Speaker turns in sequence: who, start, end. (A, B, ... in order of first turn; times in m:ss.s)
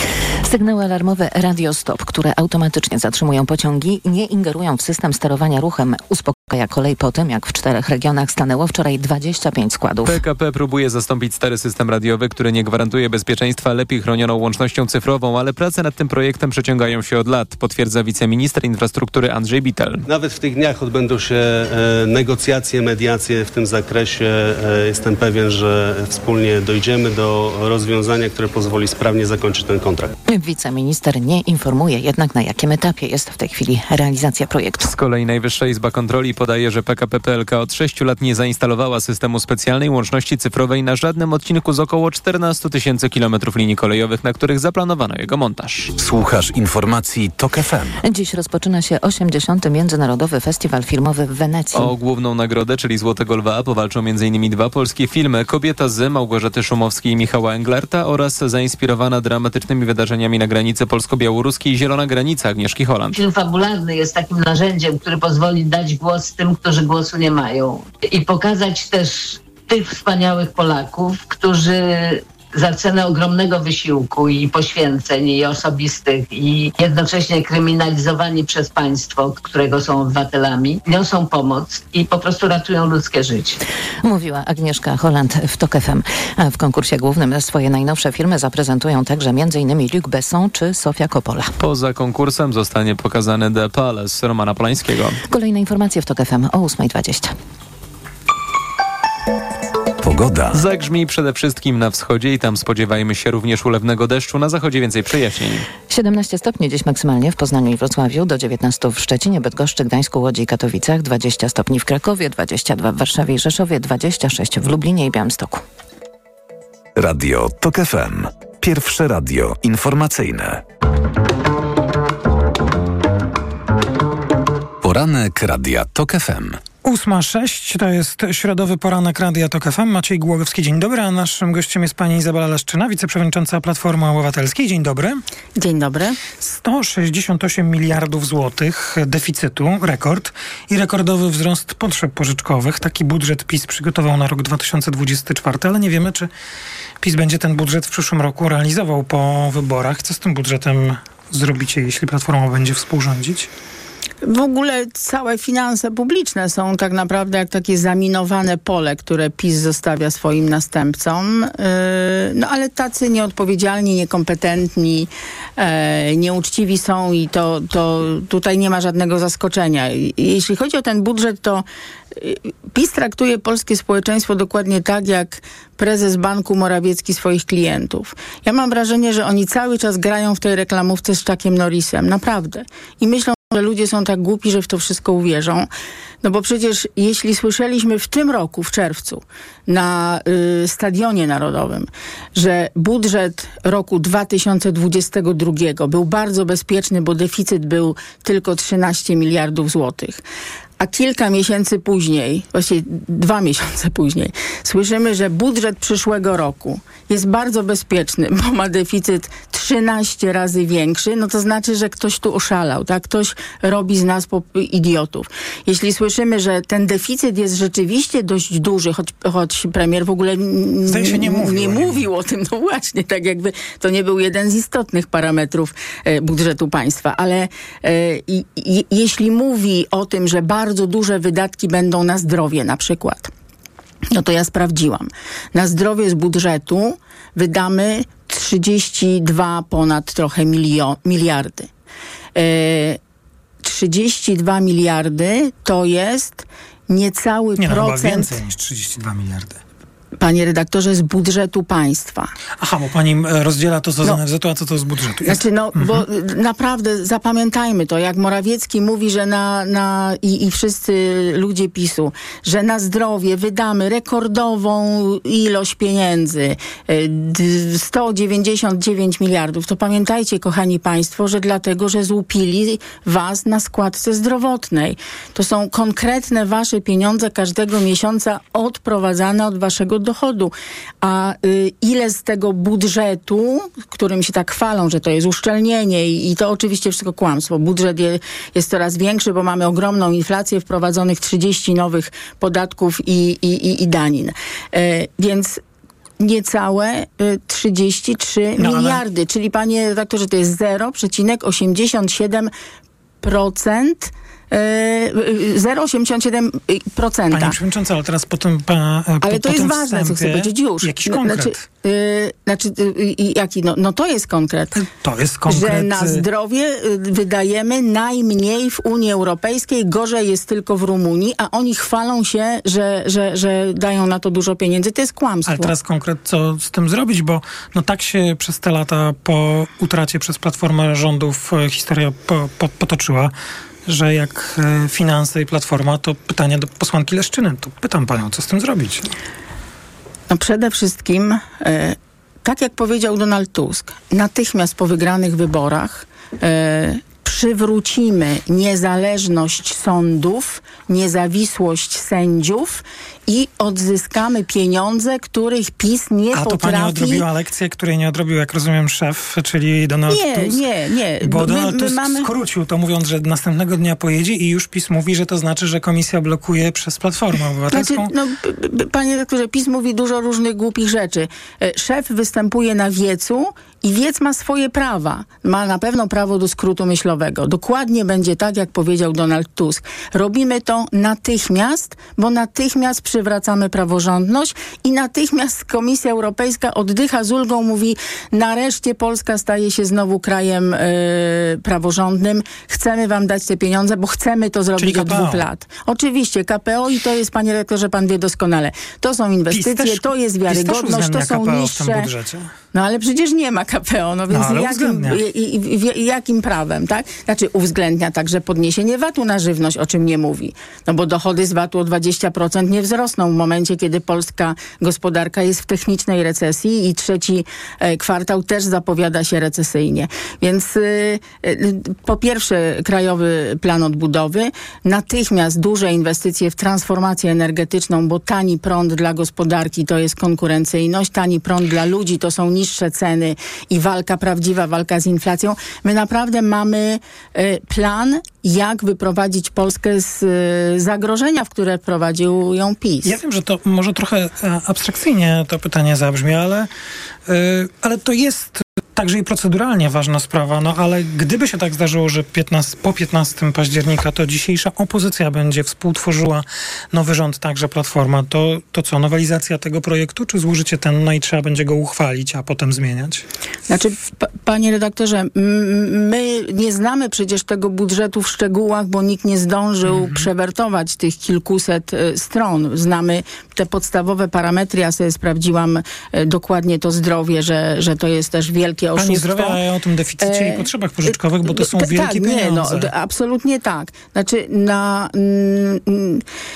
0:00.4-0:10.2 A
0:10.0-0:20.0 B
0:20.1-0:30.1 C
0:30.2-0:34.9 A
0:34.8-0:45.9 B
0:46.0-0:48.0 D
0:48.0-0:51.9 A
0:51.7-1:03.2 B
1:03.1-1:23.6 E
1:24.0-1:31.5 A
1:31.6-1:35.2 B
1:35.2-1:37.3 A
1:40.0-1:40.6 D
1:40.5-1:45.6 B
1:45.9-1:55.6 A
1:57.0-2:00.6 D
2:04.8-2:06.6 D
2:06.8-2:15.2 F
2:15.6-2:16.2 G
2:16.3-2:26.3 F
2:27.0-2:33.5 F
2:34.2-3:05.7 G
3:06.2-3:20.2 G
3:20.8-3:53.3 G
3:40.9-3:42.1 F
3:54.1-4:01.7 G
4:02.3-4:03.0 G
4:03.6-4:08.4 G
4:07.6-4:09.6 F
4:10.2-4:12.3 G
4:12.6-4:16.0 F
4:15.2-4:55.6 G
4:56.2-5:02.5 G
4:58.6-4:59.0 F
5:03.2-5:07.6 G
5:07.3-5:11.6 F
5:09.2-5:14.8 G
5:14.8-5:16.2 F
5:15.5-5:25.7 G
5:25.4-5:33.3 F
5:33.8-5:39.1 F
5:40.3-5:57.2 G
5:56.3-6:00.6 F
6:00.1-6:02.3 G
6:01.2-6:08.1 F
6:07.7-6:42.1 G
6:34.8-6:35.4 F
6:39.5-6:42.5 F
6:42.7-7:23.1 G
6:44.3-6:45.2 F
7:23.0-7:26.7 F
7:27.3-7:43.2 F
7:43.7-7:59.6 G
7:49.9-7:50.3 F
7:59.0-8:02.9 F
8:00.2-8:06.2 G